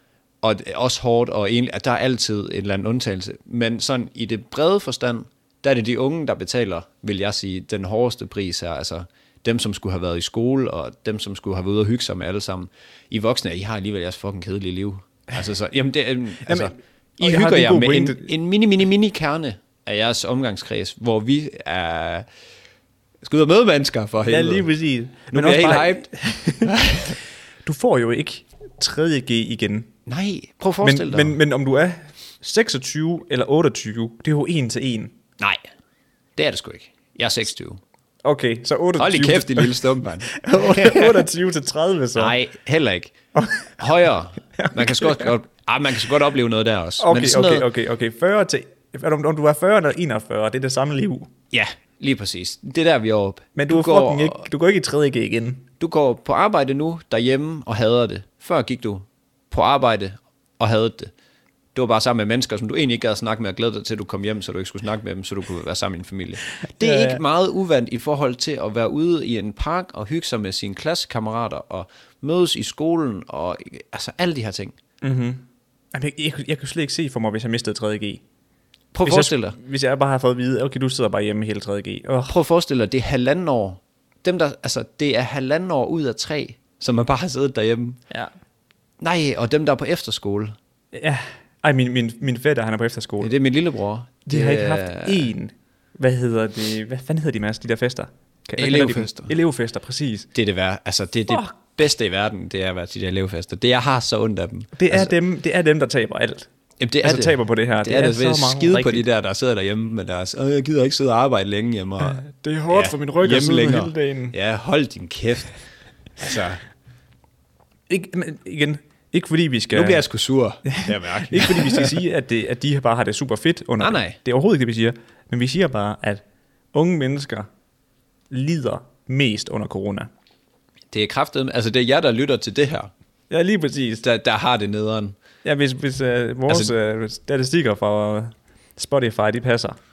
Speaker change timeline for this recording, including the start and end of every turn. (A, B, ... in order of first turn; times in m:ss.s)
0:00.4-0:22.2 A
0:16.4-0:18.3 B
0:23.2-0:24.7 A
0:24.2-0:29.9 B
0:25.3-0:27.1 A
0:30.0-0:31.4 A
0:30.8-0:35.1 B
0:36.4-0:37.8 A
0:38.2-0:42.4 B
0:39.0-0:41.3 A
0:42.2-0:43.1 A
0:43.4-0:43.8 B
0:43.8-0:47.7 A
0:44.6-0:45.3 B
0:47.0-0:51.3 B
0:51.5-0:54.4 A
0:53.6-0:55.6 B
0:55.8-1:01.1 A
1:01.7-1:14.8 A
1:06.6-1:07.2 B
1:15.0-1:18.2 B
1:18.9-1:19.6 A
1:19.0-1:22.3 B
1:22.3-1:28.0 A
1:29.0-1:30.6 A
1:30.9-1:33.3 B
1:33.2-1:35.3 A
1:34.2-1:40.3 B
1:38.6-1:39.3 A
1:40.3-1:45.1 A
1:41.3-1:41.6 B
1:44.8-1:46.5 B
1:46.8-1:55.6 A
1:47.0-1:49.0 B
1:52.0-1:54.3 B
1:56.2-1:56.6 A
1:57.9-2:00.0 B
1:59.7-2:02.0 A
2:00.6-2:07.5 B
2:03.8-2:04.2 A
2:08.3-2:10.1 B
2:10.9-2:12.9 A
2:13.3-2:14.0 B
2:14.0-2:15.2 A
2:15.4-2:19.8 B
2:16.5-2:16.7 A